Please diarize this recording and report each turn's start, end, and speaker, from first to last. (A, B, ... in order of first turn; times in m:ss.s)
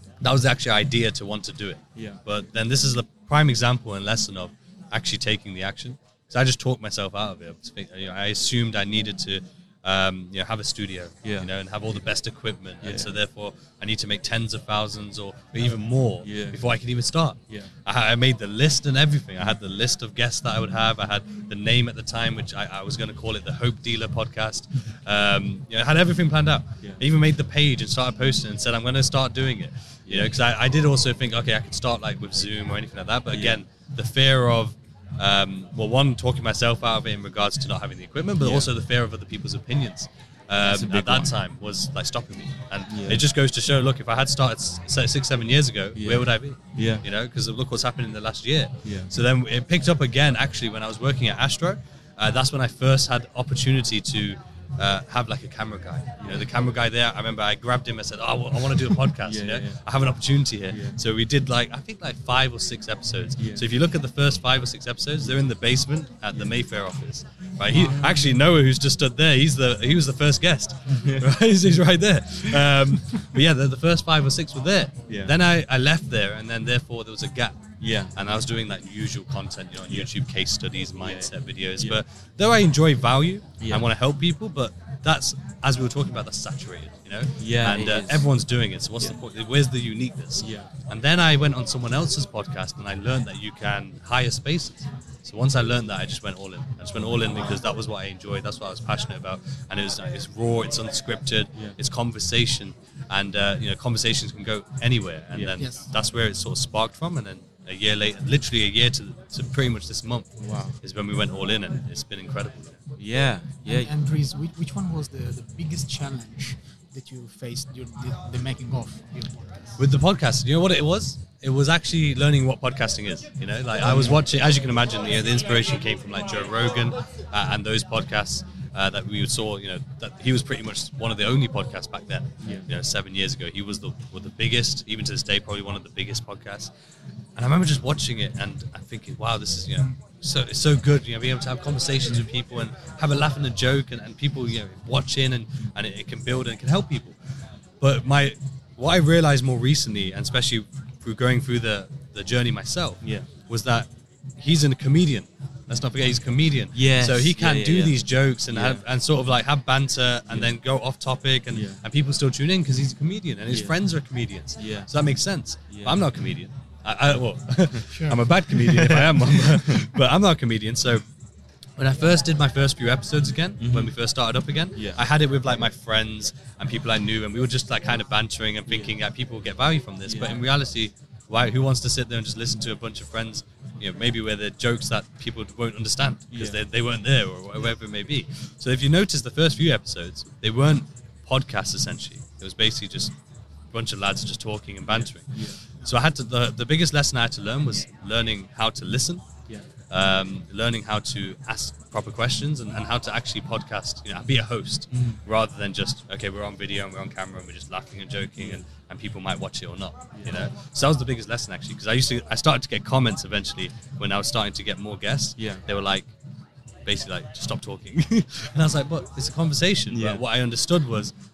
0:00.2-1:17.6 A
0:02.0-0:02.2 B
0:11.2-0:12.0 B
0:12.8-0:13.2 B
0:16.2-0:16.7 B
0:30.0-0:30.4 B
0:33.3-0:33.6 B
0:38.4-0:38.7 B
0:40.6-0:41.4 B
0:42.9-0:43.3 B
0:46.0-0:47.1 B
0:48.8-0:49.1 B
0:56.2-0:56.5 B
0:59.2-0:59.8 B
1:00.7-1:01.0 B
1:03.4-1:03.7 B
1:05.2-1:05.5 B
1:06.3-1:06.6 B
1:07.7-1:08.4 C
1:10.9-1:11.3 B
1:12.4-1:12.7 B
1:15.1-1:15.4 B
1:17.8-1:18.2 B
1:18.2-1:50.3 A
1:21.0-1:22.0 B
1:23.6-1:23.9 B
1:27.4-1:28.3 B
1:30.4-1:30.7 B
1:45.3-1:45.6 B
1:45.6-1:45.9 C
1:50.4-1:50.7 B
1:50.8-1:52.8 A
1:53.0-1:53.9 B
1:53.6-1:59.8 C
1:59.8-2:16.7 A
2:03.8-2:04.2 B
2:12.4-2:12.7 B
2:17.4-2:27.2 A
2:27.8-2:51.0 A
2:33.0-2:33.3 B
2:36.7-2:38.9 B
2:40.3-2:40.6 B
2:41.5-2:41.8 B
2:43.5-2:43.8 B
2:44.5-2:44.9 B
2:45.7-2:46.1 B
2:47.9-2:48.2 C
2:48.3-2:50.0 B
2:51.8-3:13.1 A
2:53.6-2:54.0 B
2:54.7-2:55.0 B
2:58.7-2:59.0 B
3:00.0-3:00.4 B
3:06.3-3:06.6 B
3:13.7-3:19.2 A
3:14.9-3:15.6 B
3:19.9-3:36.1 A
3:24.9-3:25.2 B
3:28.4-3:28.6 B
3:30.1-3:30.5 B
3:35.4-3:35.7 B
3:36.9-3:41.1 A
3:39.9-3:40.2 B